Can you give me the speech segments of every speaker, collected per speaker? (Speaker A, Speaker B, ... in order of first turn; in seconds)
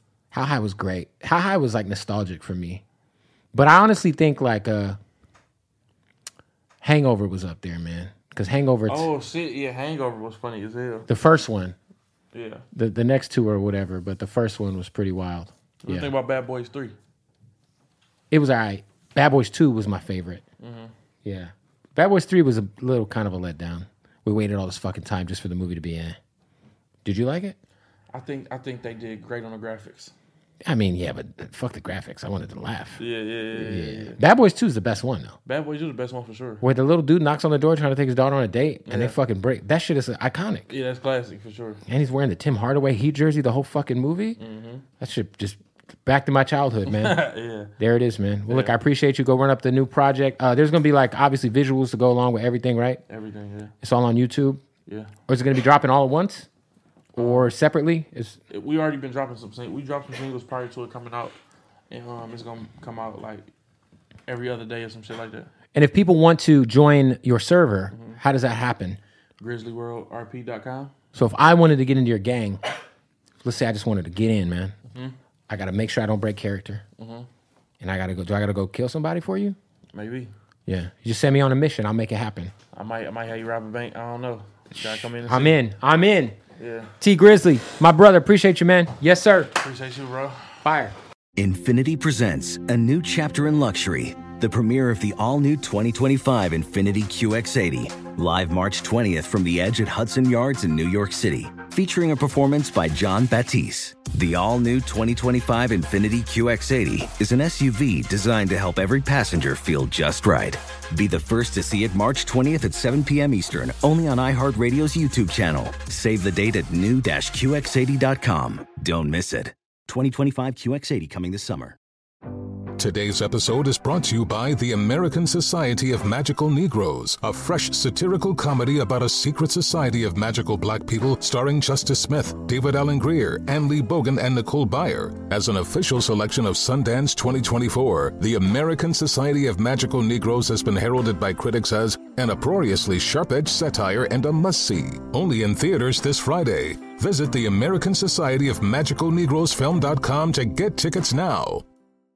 Speaker A: 0.3-2.8, 3.5-5.0, 6.8-9.1, 11.1-11.8, 12.7-16.1, 18.3-20.4, 21.2-26.2, 27.1-27.6, 30.6-33.0, 33.5-35.4, 36.6-40.7, 41.9-44.4, 45.0-47.2, 47.8-53.0, 53.8-54.6, 55.3-56.5, 57.2-58.4, 65.7-69.0, 71.1-72.6, 73.4-74.8, 75.5-76.8, 77.8-79.6, 80.7-82.5, 84.8-86.4, 87.0-89.6, 90.6-91.0
Speaker B: 8.9-11.1, 12.3-12.7, 15.8-16.9, 20.6-20.9, 28.1-30.1, 33.0-34.2, 35.5-36.6, 38.9-39.2, 40.7-41.8, 44.4-44.9, 46.9-47.7, 48.5-48.8, 53.1-53.7, 54.9-55.1, 57.1-57.5, 58.5-61.4, 61.9-63.5, 64.3-65.5, 67.9-68.2, 69.4-70.9, 74.9-75.2, 77.0-77.3, 79.9-80.3, 82.7-85.6, 86.6-86.9, 89.6-90.6
Speaker C: 91.4-121.8
Speaker D: 122.8-151.6